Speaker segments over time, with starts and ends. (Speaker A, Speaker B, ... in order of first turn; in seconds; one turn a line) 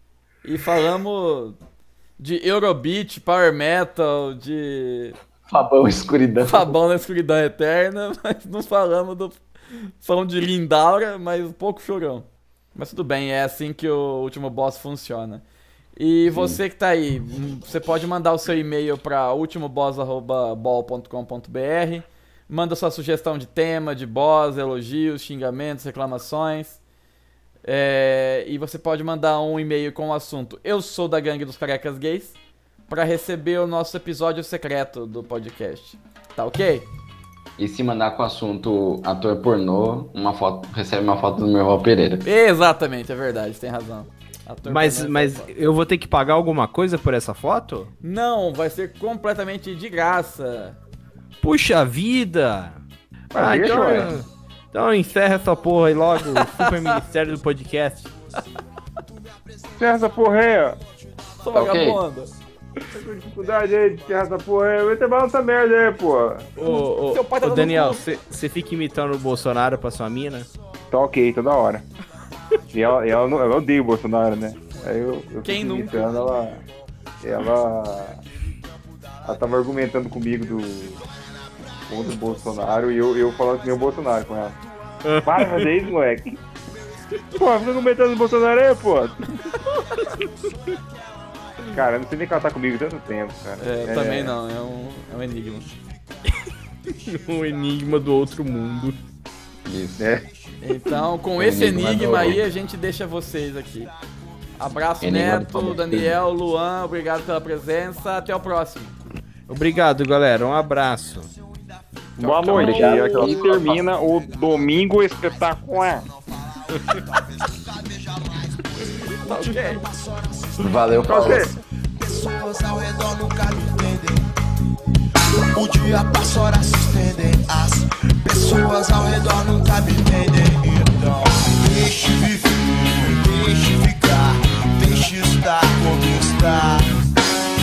Speaker A: 0.4-1.6
Speaker A: 2.2-5.2
Speaker B: 5.5-6.8
Speaker A: 6.4-15.4
Speaker A: 15.9-26.8
Speaker B: 16.3-16.6
Speaker A: 27.6-32.4
Speaker A: 32.9-36.9
Speaker B: 37.6-42.3
Speaker A: 42.2-45.5
Speaker C: 44.6-47.9
Speaker A: 48.0-50.8
Speaker C: 51.4-52.8
Speaker C: 53.3-58.1
Speaker D: 53.3-54.1
Speaker A: 53.7-54.0
Speaker A: 56.4-56.9
Speaker E: 59.0-60.8
Speaker D: 59.8-60.8
Speaker A: 61.4-62.3
Speaker B: 61.5-62.0
Speaker D: 62.9-66.5
Speaker E: 63.3-64.2
Speaker C: 66.5-70.5
Speaker A: 66.7-68.0
Speaker D: 70.9-71.8
Speaker D: 72.7-76.6
Speaker A: 75.4-76.5
Speaker E: 76.1-76.7
Speaker D: 77.2-78.2
Speaker E: 79.2-79.5
Speaker D: 79.2-81.0
Speaker E: 80.7-81.0
Speaker D: 81.9-84.5
Speaker E: 81.9-85.0
Speaker C: 85.0-85.8
Speaker D: 85.2-86.3
Speaker E: 86.7-87.9
Speaker D: 87.3-89.2
Speaker E: 89.3-91.8
Speaker D: 91.7-94.3
Speaker A: 93.6-95.7
Speaker E: 95.7-97.8
Speaker C: 97.1-99.0
Speaker B: 99.6-100.2
Speaker D: 100.0-100.2
Speaker E: 100.2-101.0
Speaker A: 100.6-103.9
Speaker B: 101.4-102.4
Speaker A: 104.6-108.9
Speaker B: 105.0-106.2
Speaker C: 109.5-111.3
Speaker E: 111.3-124.2
Speaker D: 112.2-116.0
Speaker B: 112.3-113.8
Speaker A: 112.5-113.1
Speaker A: 119.2-119.8
Speaker B: 120.6-121.5
Speaker D: 121.1-121.5
Speaker E: 125.5-137.0